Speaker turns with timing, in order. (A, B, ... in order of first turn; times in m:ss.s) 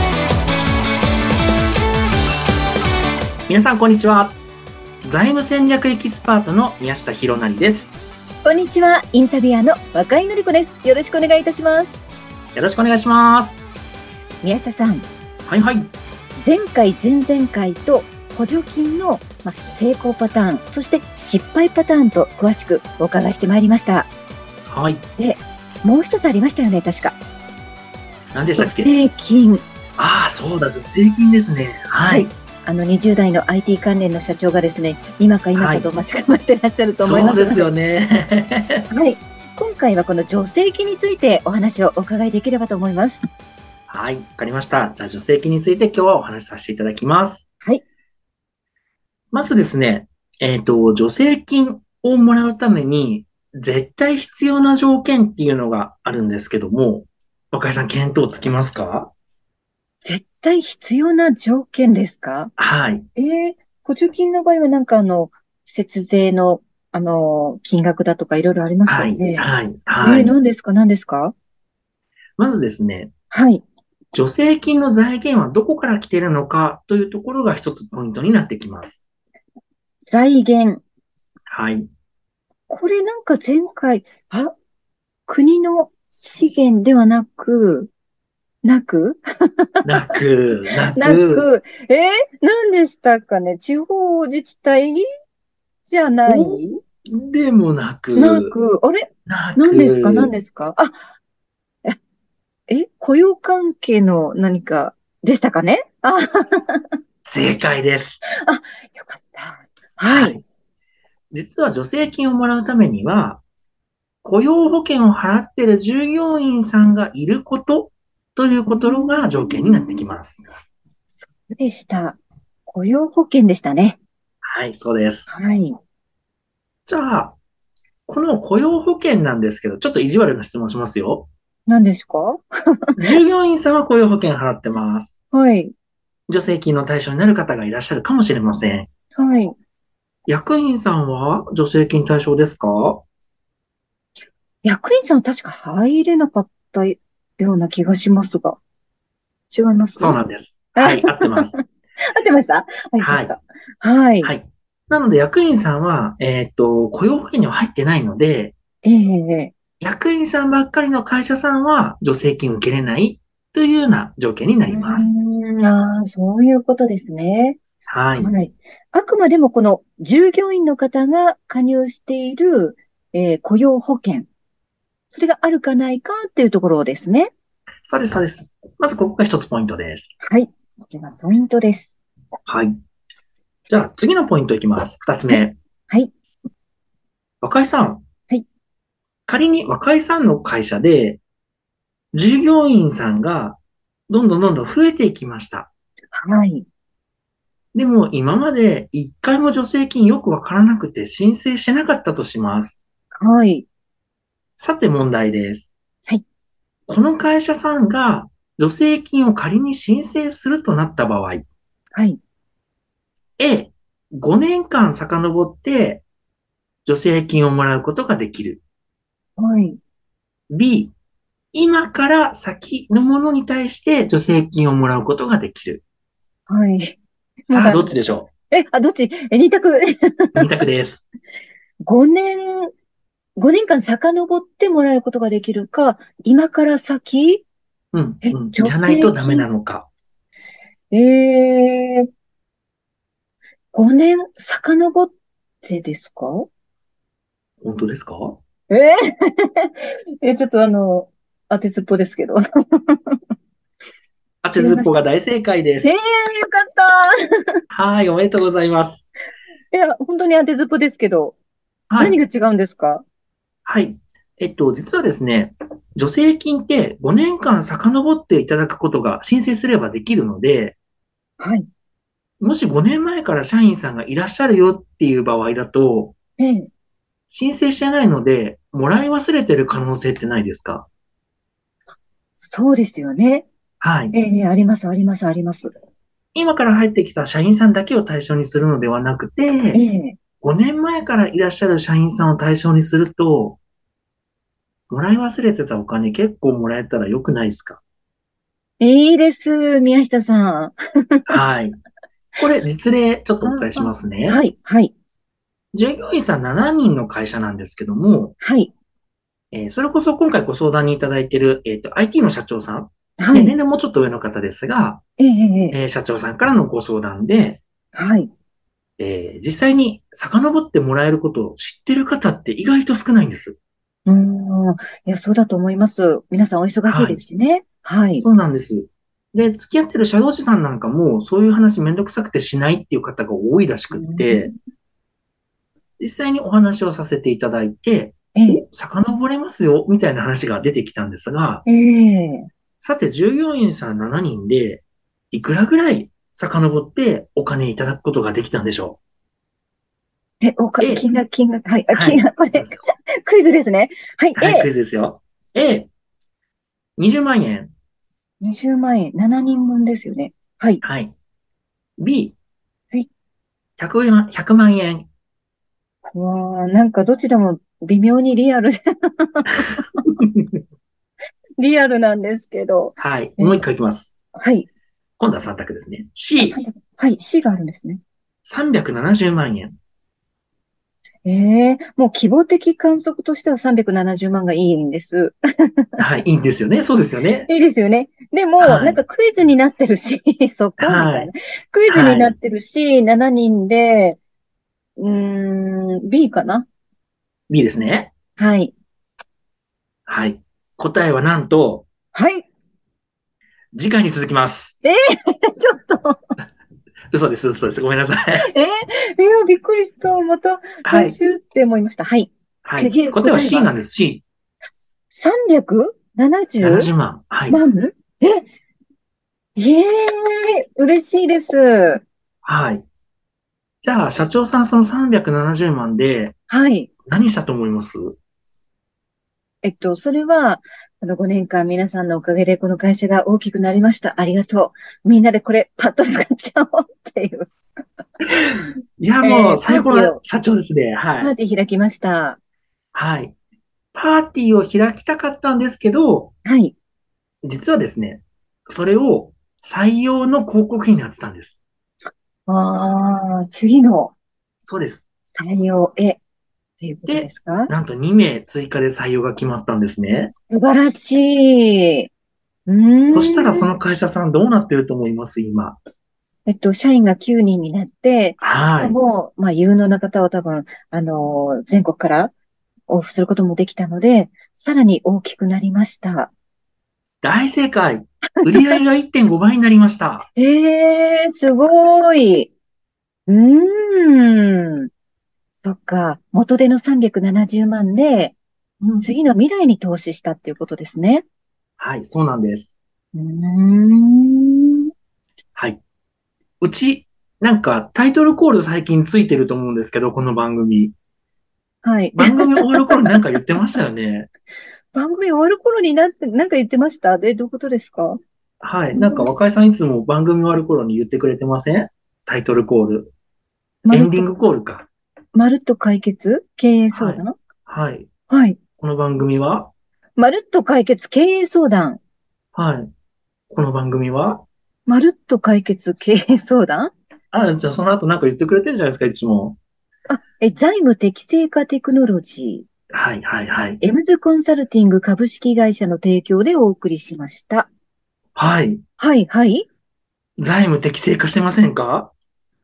0:03.5-0:04.4 A
0:05.0-0:07.9 A
0:08.4-0:12.0 B
0:12.5-0:13.6 A
0:14.4-0:15.1 B
0:15.4-0:15.9 A
0:16.4-0:24.1 B
0:24.7-0:25.0 A
0:25.2-0:27.2 B
0:28.3-0:28.9 A
0:28.6-0:29.6 B
0:30.0-0:32.3 A
0:32.1-0:37.7 B
0:35.5-0:35.9 A
0:37.0-0:38.8 A
0:38.9-0:43.2 B
0:43.9-0:47.5 A
0:49.3-0:59.1 A
1:00.0-1:02.5 B
1:02.6-1:03.0 A
1:03.2-1:09.4 B
1:08.9-1:10.3 A
1:10.0-1:11.3 B
1:12.4-1:13.1 A
1:13.3-1:13.6 B
1:14.1-1:19.0 A
1:20.1-1:20.8 B
1:21.5-1:21.9 A
1:22.7-1:24.5 B
1:25.3-1:27.9 B
1:28.6-1:29.7 B
1:29.8-1:31.4 A
1:31.0-1:35.0 B
1:35.9-1:36.8 B
1:36.3-1:36.6 A
1:37.1-1:38.5 A
1:38.1-1:40.9 B
1:39.3-1:40.3 A
1:42.7-1:46.9 B
1:47.2-1:48.2 A
1:48.4-1:50.4 B
1:50.0-1:50.4 A
1:51.3-1:53.4 A
1:54.2-2:00.4 A
1:58.7-2:00.0 B
2:01.1-2:04.0 B
2:04.4-2:05.3 A
2:05.3-2:05.8 B
2:06.8-2:07.4 A
2:08.1-2:11.3 A
2:11.7-2:12.4 B
2:13.0-2:15.1 A
2:15.3-2:15.7 B
2:16.3-2:18.9 A
2:19.2-2:19.6 B
2:20.3-2:23.0 A
2:24.6-2:28.6 B
2:29.5-2:30.2 B
2:30.0-2:31.5 A
2:30.8-2:34.3 B
2:33.0-2:33.3 A
2:34.2-2:38.5 A
2:38.8-2:39.5 B
2:39.8-2:45.1 A
2:44.7-2:47.6 B
2:47.9-2:48.3 A
2:48.2-2:54.3 B
2:55.1-2:57.3 B
2:57.8-3:00.1 A
3:00.2-3:02.0 B
3:02.5-3:02.8 A
3:03.7-3:05.6 A
3:05.3-3:06.1 B
3:07.4-3:08.0 A
3:09.3-3:11.2 A
3:12.1-3:15.7 A
3:16.1-3:16.7 B
3:17.7-3:22.8 A
3:23.2-3:23.7 B
3:24.6-3:25.7 A
3:26.9-3:31.5 A
3:31.9-3:32.2 B
3:33.4-3:36.0 A
3:36.8-3:38.6 A
3:39.4-3:39.8 B
3:40.5-3:40.9 A
3:41.5-3:45.8 A
3:46.5-3:47.0 B
3:47.5-3:48.0 B
3:47.5-3:48.3 A
3:48.5-3:50.4 B
3:50.3-3:51.0 A
3:51.8-3:52.7 B
3:53.4-3:57.4 B
3:57.9-3:59.9 A
3:58.2-3:59.5 B
4:00.9-4:02.1 B
4:03.7-4:05.1 B
4:05.6-4:06.5 B
4:07.6-4:08.4 A
4:08.7-4:13.2 B
4:14.4-4:15.9 A
4:14.5-4:14.9 B
4:15.8-4:17.1 B
4:17.7-4:19.1 A
4:19.7-4:21.4 B
4:21.9-4:22.2 A
4:22.0-4:23.0 B
4:23.6-4:30.8 A
4:31.4-4:31.6 B
4:32.4-4:36.1 A
4:36.4-4:36.7 B
4:37.3-4:40.9 A
4:42.4-4:43.5 B
4:43.8-4:44.1 A
4:44.1-4:45.7 B
4:46.3-4:49.8 A
4:49.7-4:50.2 B
4:50.4-4:53.6 A
4:54.9-4:57.8 A
4:58.8-5:01.3 B
5:01.3-5:01.8 A
5:02.4-5:04.4 A
5:03.4-5:04.9 B
5:05.7-5:08.3 A
5:08.4-5:08.7 B
5:09.5-5:15.0 A
5:13.2-5:13.5 B
5:15.2-5:15.8 B
5:15.7-5:17.6 A
5:17.9-5:18.3 B
5:19.0-5:23.6 A
5:24.0-5:28.2 B
5:26.9-5:27.2 A
5:28.2-5:34.5 A
5:33.9-5:34.5 B
5:36.0-5:41.6 A
5:38.3-5:38.6 B
5:41.6-5:42.5 B
5:42.8-5:49.0 A
5:50.4-5:54.7 B
5:50.8-5:51.0 A
5:51.9-5:52.8 A
5:54.4-5:55.9 A
5:57.0-5:57.7 A
5:58.4-6:00.8 B
6:00.8-6:01.1 A
6:02.0-6:02.4 A
6:03.8-6:05.1 A
6:06.1-6:09.8 B
6:10.1-6:10.6 A
6:11.6-6:13.6 B
6:13.0-6:14.2 A
6:14.3-6:14.7 B
6:15.2-6:16.6 A
6:16.4-6:18.0 B
6:18.4-6:19.7 A
6:21.2-6:25.8 B
6:26.0-6:27.5 A
6:27.5-6:34.2 B
6:28.6-6:29.0 A
6:30.8-6:31.3 A
6:31.9-6:32.3 A
6:35.0-6:36.7 B
6:37.5-6:38.1 A
6:38.4-6:38.7 B
6:40.1-6:41.9 A
6:42.1-6:42.5 B
6:43.7-6:44.8 A
6:44.8-6:46.2 B
6:47.1-6:48.5 A
6:48.4-6:53.7 B
6:50.8-6:51.2 A
6:52.6-6:54.2 A
6:55.1-6:56.9 B
6:56.6-6:57.6 A
6:57.5-6:58.4 B
6:59.6-7:02.0 B
7:02.4-7:02.8 A
7:03.8-7:06.3 A
7:06.5-7:06.9 B
7:07.1-7:08.2 A
7:09.6-7:17.5 B
7:19.0-7:21.3 A
7:19.2-7:20.2 B
7:21.2-7:22.4 B
7:22.9-7:23.3 A
7:23.9-7:26.3 A
7:26.4-7:26.7 B
7:27.4-7:31.6 A
7:32.5-7:34.1 B
7:34.7-7:35.0 A
7:35.3-7:36.2 B
7:36.8-7:37.7 B
7:37.1-7:40.3 A
7:40.3-7:42.1 B
7:42.7-7:43.7 B
7:43.1-7:45.8 A
7:46.5-7:52.3 B
7:48.4-7:49.0 A
7:52.9-7:56.3 B
7:57.2-8:00.3 A
7:58.4-7:58.8 B
8:00.4-8:02.5 B
8:03.3-8:04.9 B
8:05.6-8:08.4 B
8:09.0-8:11.2 B
8:11.8-8:12.7 A
8:13.1-8:14.9 B
8:15.5-8:15.8 A
8:16.6-8:20.9 A
8:21.8-8:23.0 B
8:22.2-8:24.3 A
8:24.9-8:28.2 B
8:28.6-8:33.1 A
8:28.9-8:29.3 B
8:33.8-8:34.3 B
8:33.9-8:34.9 A
8:35.3-8:37.4 B
8:36.9-8:38.1 A
8:38.3-8:38.6 B
8:38.8-8:39.7 A
8:40.2-8:42.0 B
8:42.5-8:42.9 A
8:43.5-8:44.4 A
8:44.8-8:46.9 B
8:47.3-8:49.6 A
8:50.1-8:52.7 B
8:52.9-8:53.8 A
8:53.8-8:57.7 B
8:58.4-8:58.8 A
8:59.0-8:59.7 B
9:00.4-9:02.1 A